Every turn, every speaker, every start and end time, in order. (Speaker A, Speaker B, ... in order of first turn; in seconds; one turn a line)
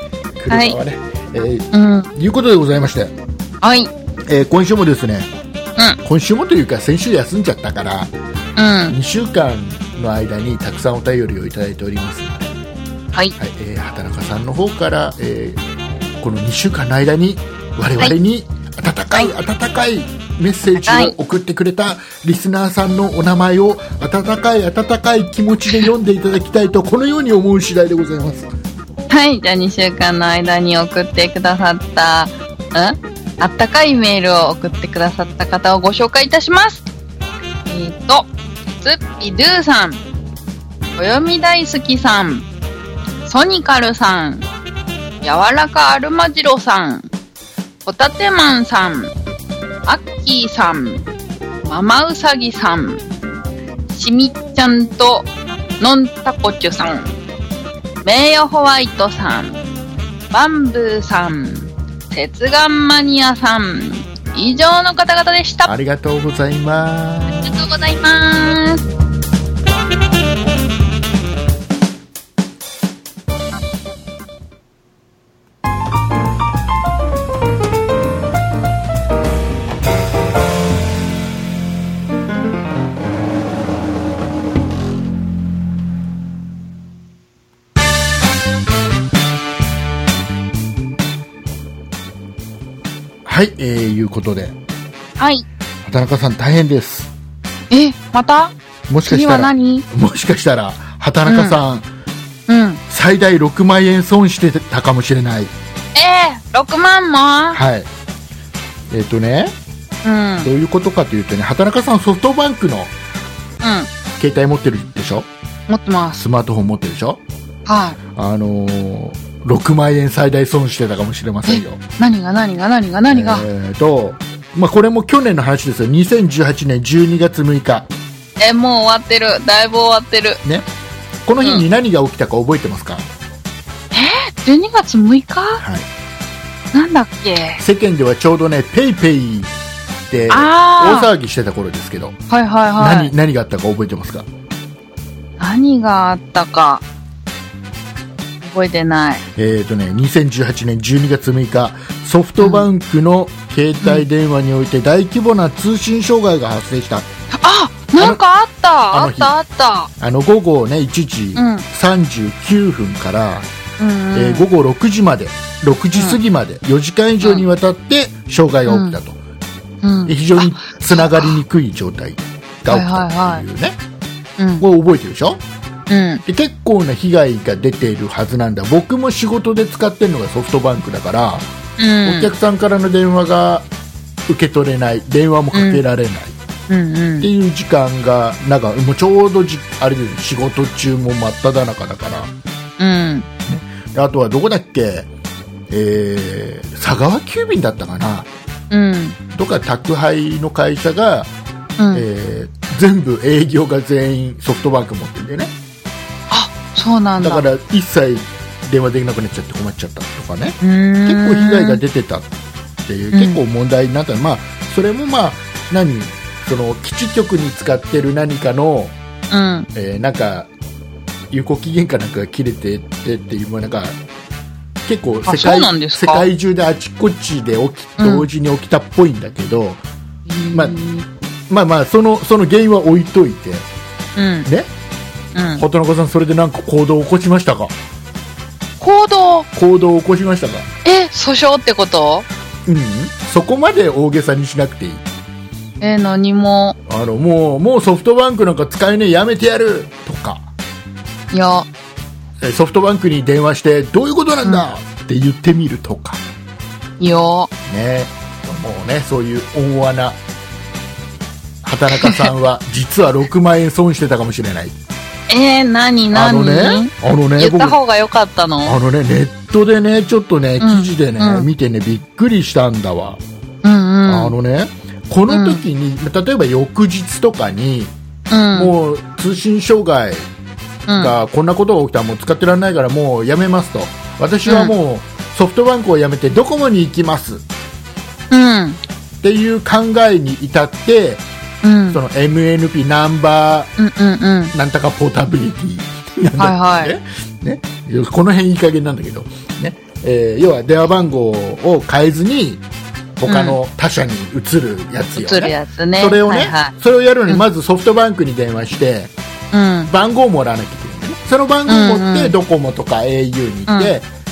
Speaker A: 0.4-3.1
Speaker B: 0.5-0.8
Speaker B: 1.7-2.1
Speaker B: 3.6-3.9
Speaker A: 4.3-5.3
Speaker A: 6.0-8.1
Speaker B: 8.6-8.9
Speaker A: 8.9-12.5
Speaker A: 13.4-15.6
Speaker A: 16.2-28.5
Speaker B: 20.7-21.1
Speaker B: 29.1-36.8
Speaker B: 37.7-40.0
Speaker B: 41.0-42.5
Speaker B: 43.2-44.5
Speaker B: 45.2-47.0
Speaker B: 47.8-49.1
Speaker B: 49.9-51.1
Speaker B: 51.6-53.0
Speaker B: 53.9-57.2
Speaker B: 58.0-59.6
Speaker B: 60.3-65.7
Speaker A: 65.7-67.6
Speaker B: 67.4-68.8
Speaker A: 93.2-94.5
Speaker B: 95.2-95.4
Speaker A: 95.8-97.1
Speaker B: 97.7-98.5
Speaker A: 98.9-101.8
Speaker B: 99.0-99.8
Speaker B: 101.3-101.6
Speaker B: 102.5-102.8
Speaker A: 102.9-105.5
Speaker B: 105.9-107.6
Speaker A: 107.5-107.9
Speaker A: 108.9-109.5
Speaker B: 110.0-110.5
Speaker A: 110.4-112.9
Speaker B: 113.6-113.9
Speaker A: 114.2-115.3
Speaker B: 115.7-116.2
Speaker A: 116.2-117.2
Speaker B: 117.7-118.0
Speaker A: 118.2-121.8
Speaker B: 121.5-123.5
Speaker A: 123.1-127.9
Speaker B: 128.4-130.4
Speaker A: 131.2-133.1
Speaker B: 133.9-135.6
Speaker A: 135.6-135.9
Speaker B: 136.7-137.6
Speaker A: 137.6-139.5
Speaker A: 140.1-142.2
Speaker B: 140.3-141.1
Speaker B: 142.3-143.1
Speaker A: 142.8-144.3
Speaker B: 145.4-146.8
Speaker B: 148.4-149.2
Speaker A: 149.3-157.1
Speaker B: 152.4-152.7
Speaker B: 157.3-159.9
Speaker A: 158.0-158.2
Speaker A: 158.9-159.3
Speaker A: 160.0-163.5
Speaker B: 161.3-161.6
Speaker B: 163.8-164.5
Speaker A: 164.1-169.2
Speaker B: 168.7-169.0
Speaker B: 169.8-171.4
Speaker A: 170.1-173.8
Speaker B: 172.7-173.4
Speaker B: 174.4-174.6
Speaker A: 174.6-175.4
Speaker B: 175.9-176.2
Speaker A: 176.2-181.5
Speaker B: 181.8-182.3
Speaker A: 182.0-183.7
Speaker A: 184.3-186.3
Speaker B: 185.5-185.8
Speaker B: 186.7-187.3
Speaker A: 187.2-192.3
Speaker B: 192.8-193.3
Speaker A: 193.4-195.1
Speaker A: 195.7-198.3
Speaker B: 198.7-199.2
Speaker A: 199.3-201.3
Speaker B: 201.8-202.0
Speaker A: 201.9-205.5
Speaker B: 206.3-207.4
Speaker A: 207.2-212.3
Speaker B: 210.6-211.8
Speaker A: 212.9-218.9
Speaker B: 213.1-213.4
Speaker B: 219.3-219.7
Speaker A: 219.7-220.5
Speaker A: 221.3-223.9
Speaker A: 224.8-229.8
Speaker B: 225.2-226.3
Speaker B: 228.0-228.3
Speaker B: 230.3-231.1
Speaker A: 230.5-230.8
Speaker A: 231.5-233.7
Speaker B: 234.2-234.5
Speaker B: 235.3-235.6
Speaker A: 235.6-237.7
Speaker B: 238.8-239.5
Speaker A: 239.5-240.7
Speaker B: 240.8-242.3
Speaker A: 242.7-245.0
Speaker B: 245.8-246.8
Speaker A: 246.9-250.5
Speaker B: 251.3-251.7
Speaker A: 252.4-256.2
Speaker B: 257.0-257.5
Speaker A: 257.7-260.2
Speaker A: 261.6-264.8
Speaker B: 262.0-262.3
Speaker B: 265.3-268.8
Speaker A: 266.1-267.8
Speaker A: 268.6-273.2
Speaker B: 270.6-271.5
Speaker B: 273.6-274.3
Speaker A: 274.1-277.9
Speaker B: 275.3-275.6
Speaker B: 278.3-278.7
Speaker A: 278.5-280.3
Speaker B: 280.9-281.1
Speaker A: 280.9-287.4
Speaker B: 284.4-284.7
Speaker B: 288.3-288.8
Speaker A: 289.2-291.2
Speaker B: 291.6-292.0
Speaker A: 291.9-293.7
Speaker B: 293.8-294.5
Speaker A: 294.5-302.6
Speaker B: 296.4-296.9
Speaker A: 303.2-309.1
Speaker B: 303.3-303.6
Speaker B: 305.1-306.7
Speaker B: 309.5-309.9
Speaker A: 309.9-314.1
Speaker B: 311.7-312.3
Speaker B: 313.7-313.9